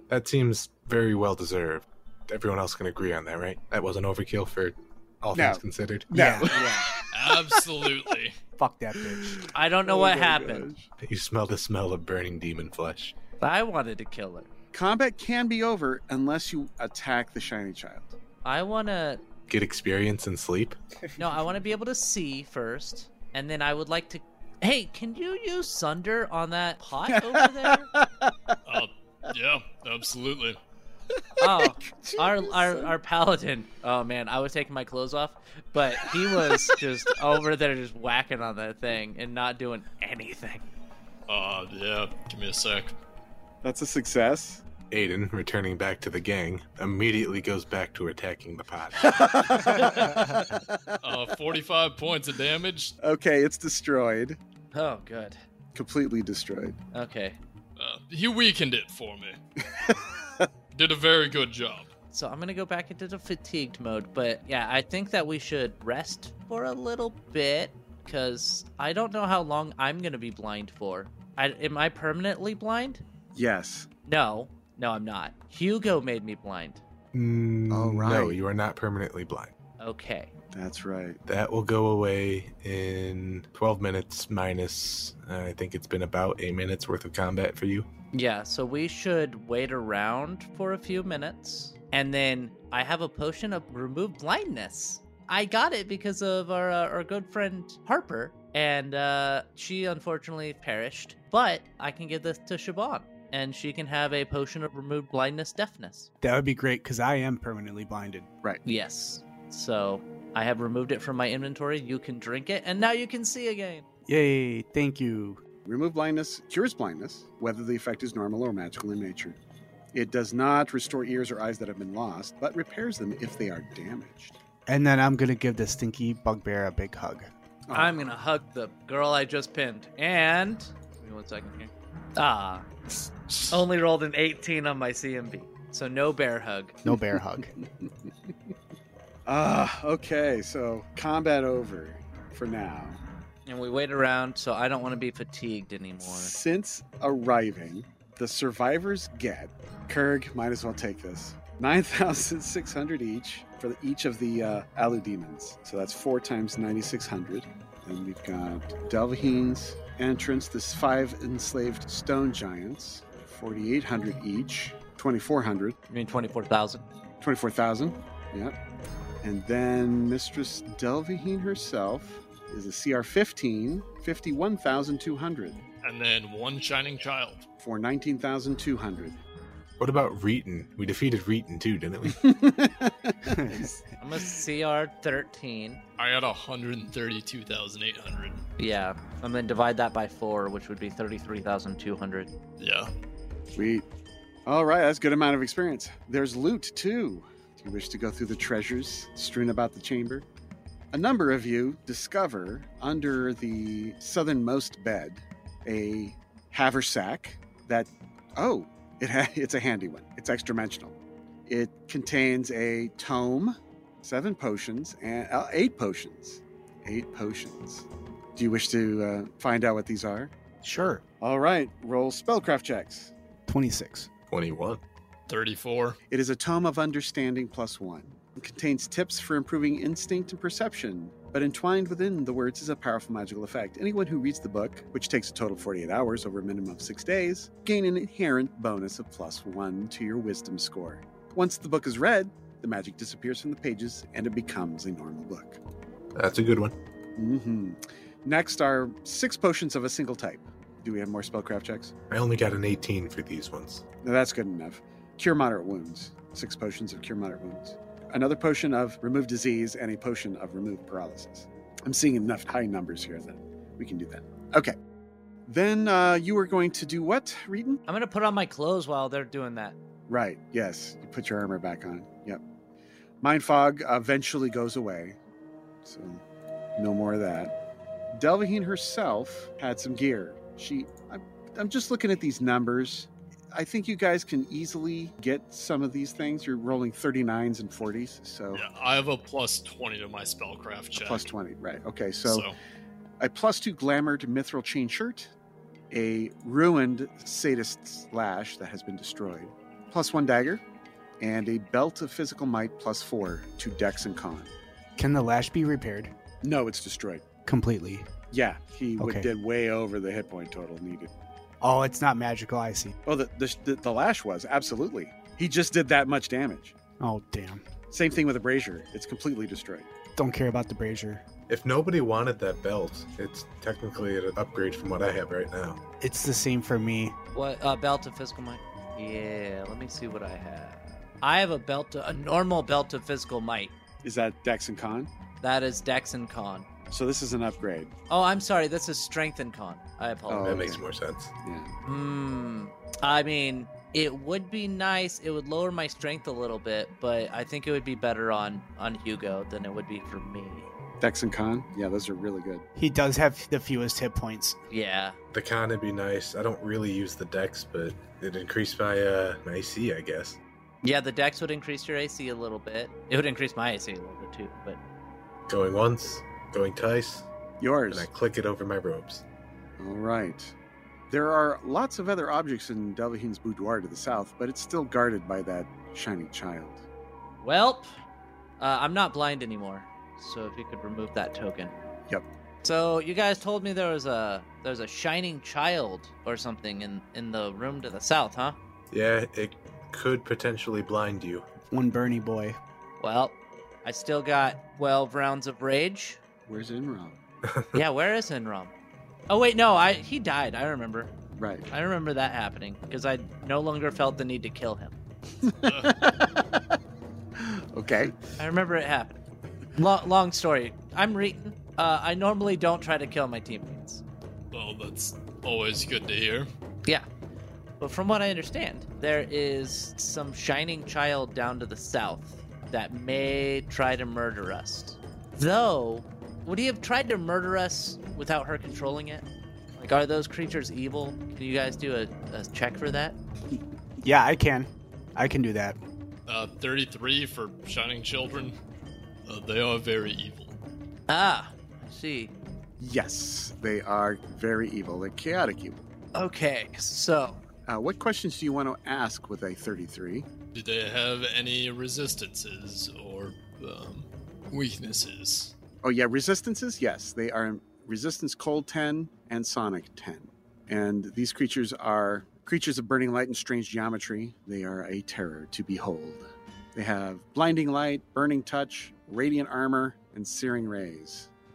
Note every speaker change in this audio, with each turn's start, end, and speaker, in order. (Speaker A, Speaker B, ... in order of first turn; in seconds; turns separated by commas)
Speaker A: 0.1-6.1, Speaker B: 5.3-7.5, Speaker C: 6.1-6.6, Speaker D: 6.4-8.3, Speaker C: 8.6-9.4, Speaker B: 9.2-10.9, Speaker E: 9.5-10.7, Speaker A: 11.0-13.1, Speaker E: 13.4-14.5, Speaker B: 14.7-18.1, Speaker E: 18.4-19.2, Speaker A: 19.5-20.8, Speaker B: 21.1-21.4, Speaker E: 21.2-27.9, Speaker B: 27.1-28.6, Speaker D: 28.6-30.6, Speaker B: 31.4-32.9, Speaker E: 31.4-40.6, Speaker B: 36.5-36.7, Speaker D: 41.3-43.0, Speaker B: 43.6-44.6, Speaker A: 44.9-49.2, Speaker B: 49.0-50.9, Speaker D: 51.0-53.0, Speaker B: 53.0-54.4, Speaker E: 54.7-55.4, Speaker B: 55.7-56.8, Speaker E: 56.9-57.4, Speaker D: 57.8-59.4, Speaker B: 59.7-60.5, Speaker D: 60.7-61.9, Speaker E: 62.1-73.0, Speaker B: 73.3-73.9, Speaker E: 74.0-76.8, Speaker A: 77.1-79.5, Speaker B: 77.7-78.4, Speaker E: 79.8-80.3, Speaker B: 80.5-81.2, Speaker A: 81.2-87.9, Speaker E: 88.1-106.1, Speaker C: 106.2-108.3, Speaker E: 108.6-113.8, Speaker C: 114.1-115.4, Speaker B: 115.6-119.4, Speaker B: 119.9-124.4, Speaker C: 124.7-127.3, Speaker B: 127.7-128.1, Speaker E: 127.7-132.7, Speaker E: 133.5-136.8, Speaker C: 136.8-137.5, Speaker B: 137.6-137.9, Speaker B: 139.3-143.0, Speaker E: 143.4-146.3, Speaker B: 146.0-165.8, Speaker E: 165.9-166.8, Speaker B: 167.2-168.6, Speaker B: 169.2-175.6, Speaker D: 175.8-177.4, Speaker B: 177.6-179.2, Speaker A: 179.8-182.2, Speaker B: 182.1-183.8, Speaker C: 183.3-183.7, Speaker E: 184.0-185.8, Speaker D: 186.0-188.4, Speaker E: 188.6-192.3, Speaker D: 192.6-192.9, Speaker B: 193.5-193.8, Speaker B: 194.4-200.2, Speaker B: 200.9-220.3, Speaker C: 220.6-221.0, Speaker B: 221.2-223.1, Speaker C: 223.5-224.1, Speaker A: 224.3-224.8, Speaker D: 225.3-226.0, Speaker B: 226.1-245.6, Speaker A: 246.1-246.7, Speaker B: 247.2-251.9, Speaker A: 252.1-253.8, Speaker B: 254.0-264.7, Speaker B: 265.4-267.8, Speaker E: 267.9-269.8, Speaker B: 270.1-272.4, Speaker B: 273.2-275.2, Speaker B: 275.8-276.2, Speaker B: 276.8-277.5, Speaker B: 278.1-288.6, Speaker D: 288.5-291.3, Speaker B: 290.9-292.5, Speaker D: 292.2-292.5, Speaker B: 293.2-295.3, Speaker B: 295.9-300.6, Speaker B: 301.2-304.5, Speaker C: 305.0-306.1, Speaker B: 306.4-307.2, Speaker C: 307.4-308.1, Speaker B: 308.3-311.1, Speaker C: 309.0-309.3, Speaker C: 311.6-312.9, Speaker B: 313.1-316.7, Speaker C: 317.0-317.6, Speaker B: 317.9-319.9, Speaker C: 320.1-321.2, Speaker A: 321.5-325.8, Speaker C: 326.0-327.1, Speaker E: 327.3-333.7, Speaker B: 334.0-335.1, Speaker E: 335.4-336.7, Speaker B: 336.9-337.9, Speaker E: 338.1-340.7, Speaker B: 340.3-340.8, Speaker A: 340.4-341.3, Speaker B: 341.4-341.7, Speaker E: 341.8-350.7, Speaker B: 351.0-352.6, Speaker C: 352.8-354.6, Speaker E: 354.7-355.1, Speaker A: 355.3-360.4, Speaker E: 360.8-364.8, Speaker A: 365.5-367.3, Speaker B: 367.6-368.1, Speaker A: 367.9-369.2, Speaker B: 369.8-370.5, Speaker B: 371.1-376.8, Speaker E: 377.4-377.9, Speaker E: 378.6-381.7, Speaker E: 382.6-388.6, Speaker A: 388.9-391.4, Speaker C: 391.7-392.6, Speaker E: 393.0-396.2, Speaker B: 396.5-397.2, Speaker A: 397.5-397.8, Speaker E: 397.7-398.7, Speaker E: 399.3-401.1, Speaker B: 401.4-401.7, Speaker E: 401.7-404.9, Speaker B: 405.4-406.5, Speaker D: 405.6-405.9, Speaker B: 407.4-408.2, Speaker E: 408.4-409.2, Speaker E: 409.8-414.0, Speaker D: 414.5-416.5, Speaker E: 417.8-433.2, Speaker C: 434.0-435.8, Speaker D: 436.3-438.5, Speaker D: 439.2-440.6, Speaker E: 441.1-442.3, Speaker B: 442.8-445.8, Speaker E: 446.1-447.4, Speaker B: 447.7-450.3, Speaker D: 450.5-455.5, Speaker B: 455.8-471.3